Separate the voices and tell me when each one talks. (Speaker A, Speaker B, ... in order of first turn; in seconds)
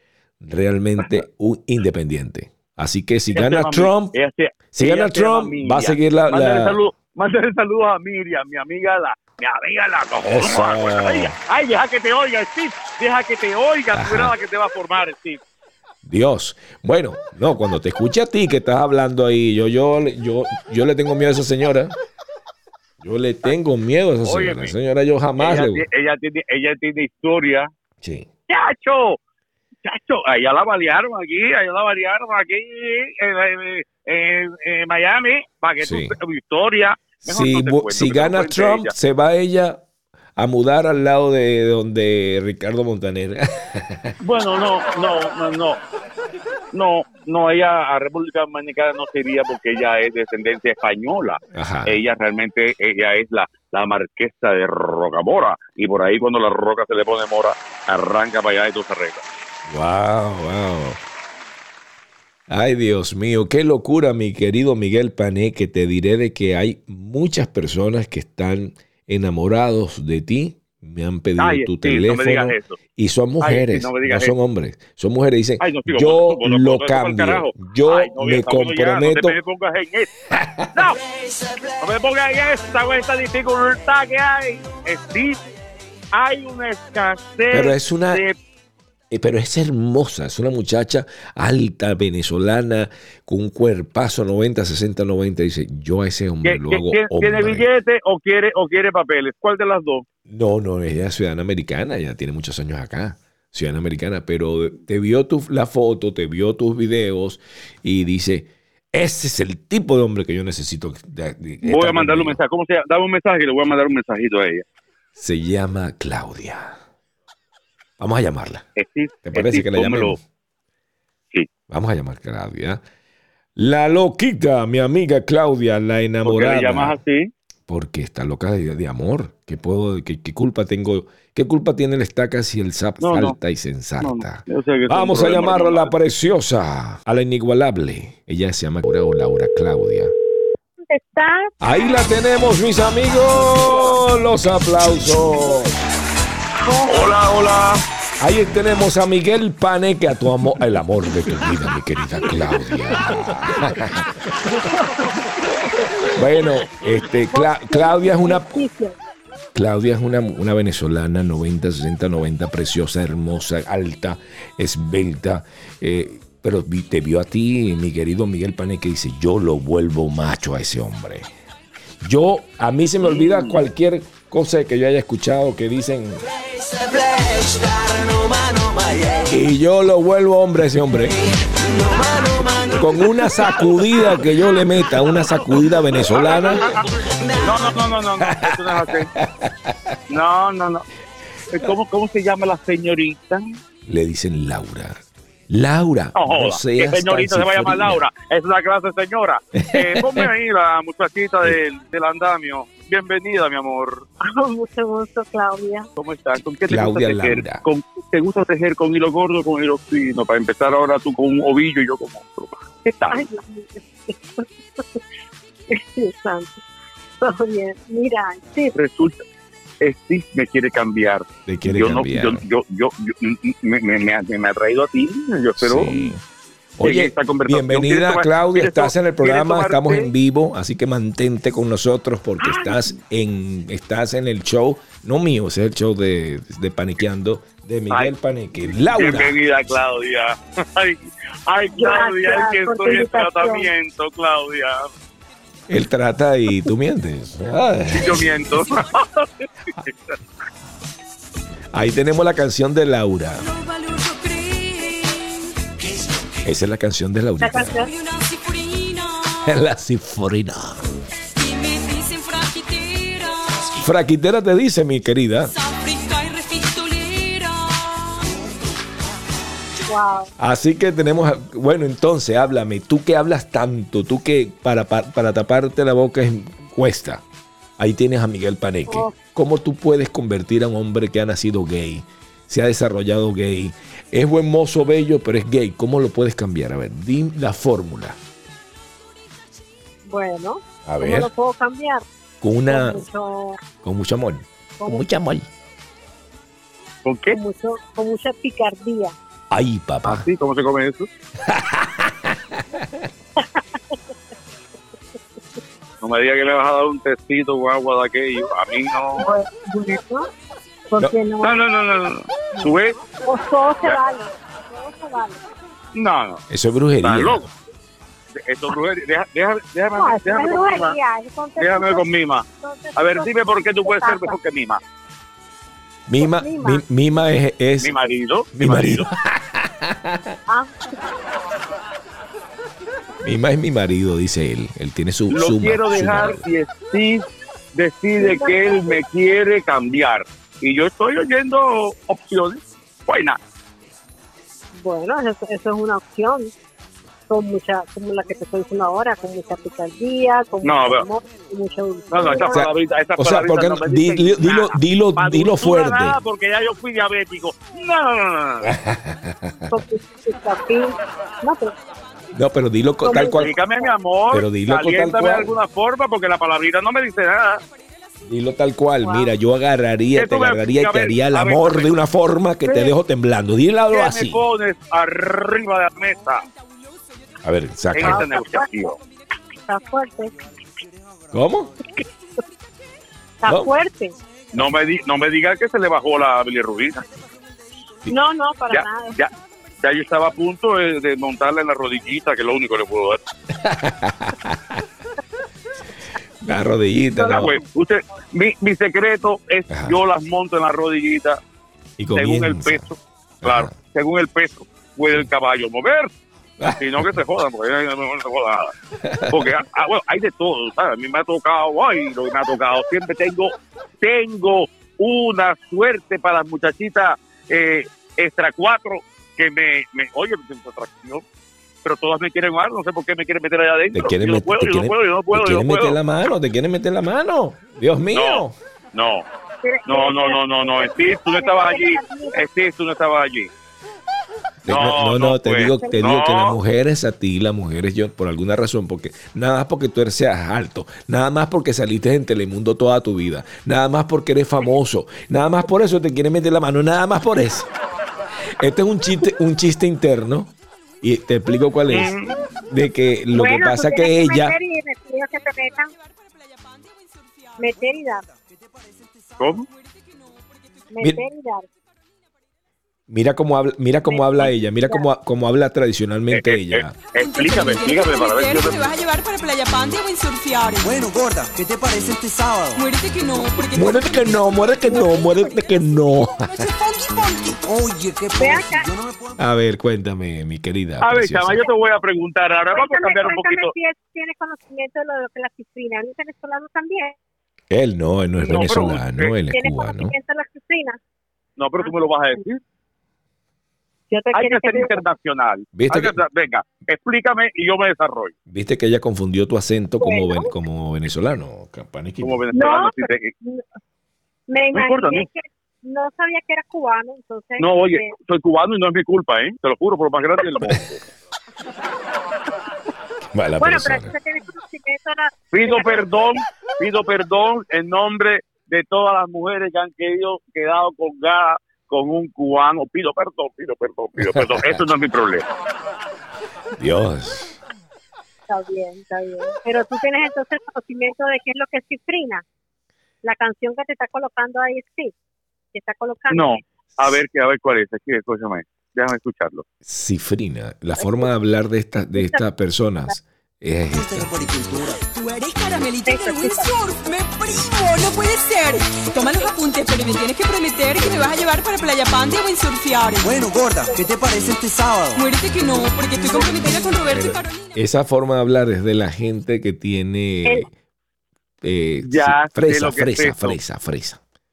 Speaker A: 0.4-4.2, 4.7-6.8, 10.2-11.3, 13.9-14.3, 16.0-22.0, 23.0-25.9, 28.0-28.3, 35.8-36.1, 37.2-39.8, 40.4-44.2, 51.5-52.0, 59.7-61.0, 62.5-79.4, 80.3-80.7, 87.5-88.2, 89.1-97.7, 100.3-112.4, 115.2-116.8, 118.0-118.7, 119.2-120.2, 121.7-122.8, 123.6-127.0, 127.7-140.1, 141.6-145.8, 148.2-154.2, 156.1-158.6, 159.6-171.3, 172.0-176.2, 179.3-181.2, 182.7-186.6, 188.2-190.0, 193.9-198.0, 199.6-200.3, 206.7-207.6, 221.5-222.4, 225.6-226.2, 226.8-239.4, 245.7-248.3, 251.7-253.4, 256.4-257.8, 259.4-260.9, 263.8-265.5, 270.4-277.2, 277.8-288.2, 290.9-291.3, 292.4-293.1, 293.8-295.5, 299.5-300.3, 301.4-303.1, 316.5-317.5, 326.1-327.9, 328.6-330.4, 333.2-336.4, 352.5-356.2, 358.6-359.8, 362.3-363.5, 364.3-365.5, 368.3-374.4, 377.4-378.3, 381.3-381.8, 383.5-383.7, 393.6-394.8, 396.4-397.6, 399.7-400.0, 402.0-402.9, 403.4-403.7, 406.6-407.2, 409.0-409.5, 423.9-428.6, 434.6-447.7, 448.6-454.6, 463.1-466.9, 473.7-476.6, 479.4-481.6, 487.7-490.1, 495.7-496.2, 498.5-502.4, 513.3-514.1, 524.2-524.8, 526.8-527.6, 539.9-544.5, 557.1-560.7, 561.6-564.2
Speaker B: 3.3-15.4, 24.2-24.7, 25.4-27.7, 28.5-29.2, 29.8-38.9, 44.2-45.8, 46.7-59.2, 71.4-72.8, 73.4-74.3, 75.6-81.0, 81.8-85.4, 86.1-88.3, 96.4-100.0, 111.6-114.7, 118.8-120.2, 126.2-127.3, 133.0-133.4, 134.0-135.9, 146.7-147.8, 173.0-173.6, 186.3-186.8, 187.4-189.1, 190.1-190.9, 191.5-193.4, 196.2-204.1, 206.0-213.3, 218.8-219.2, 219.8-226.1, 226.8-230.1, 238.7-244.9, 247.9-250.2, 297.0-297.4, 300.1-301.1, 306.0-309.3, 311.4-313.0, 315.9-316.4, 317.0-317.5, 318.4-321.0, 321.6-322.4, 323.0-324.8, 327.8-329.1, 335.3-343.4, 350.6-351.1, 352.1-358.7, 363.1-367.6, 370.1-371.9, 373.9-376.5, 377.9-379.0, 384.5-387.1, 388.7-393.2, 397.3-401.4, 402.1-406.1, 406.8-408.7, 409.3-421.2, 421.8-426.0, 428.1-429.3, 429.9-433.5, 434.7-436.6, 451.9-452.4, 459.4-459.7, 466.3-468.9, 481.0-483.7, 488.5-489.3, 491.6-492.6, 494.3-498.3, 502.2-503.3, 504.7-505.3, 507.6-511.0, 515.5-525.5, 536.3-539.6, 562.0-563.6
Speaker C: 80.9-81.9, 176.2-179.3, 181.1-183.6, 187.2-187.7, 458.2-459.5, 470.8-472.9, 476.6-479.4, 544.0-545.0, 553.2-555.3
Speaker D: 140.8-141.7, 146.7-147.0, 157.3-159.0, 204.2-205.9, 213.1-215.0, 215.7-216.6, 217.2-218.8, 241.8-243.7, 257.4-257.9, 269.9-270.3, 278.9-279.1, 290.1-292.1, 292.7-293.6, 297.3-299.1, 303.4-303.9, 309.2-310.3, 310.9-311.6, 312.5-315.4, 320.0-324.4, 326.2-326.8, 330.5-330.9, 338.2-339.0, 344.8-346.5, 347.3-352.6, 359.7-361.7, 363.0-363.8, 369.0-369.3, 372.6-372.9, 378.1-378.7, 379.7-380.4, 383.4-384.1, 388.1-389.2, 397.2-397.5, 429.6-432.4, 453.3-455.9, 457.6-458.3, 460.9-461.7, 464.1-465.1, 474.8-475.4, 478.4-478.9, 482.7-487.2, 488.4-491.0, 494.1-495.0, 500.0-500.5, 502.5-503.6, 504.5-508.1, 513.6-516.4, 528.5-532.4, 533.2-535.1, 535.7-536.6, 541.0-541.3, 542.1-542.4, 546.1-546.7, 553.9-554.1, 556.3-556.9
Speaker E: 253.4-255.6, 257.8-259.6, 261.3-263.8, 265.5-268.4, 456.1-457.5, 467.1-471.1, 472.8-475.1, 477.0-477.5, 545.1-553.5, 555.1-557.8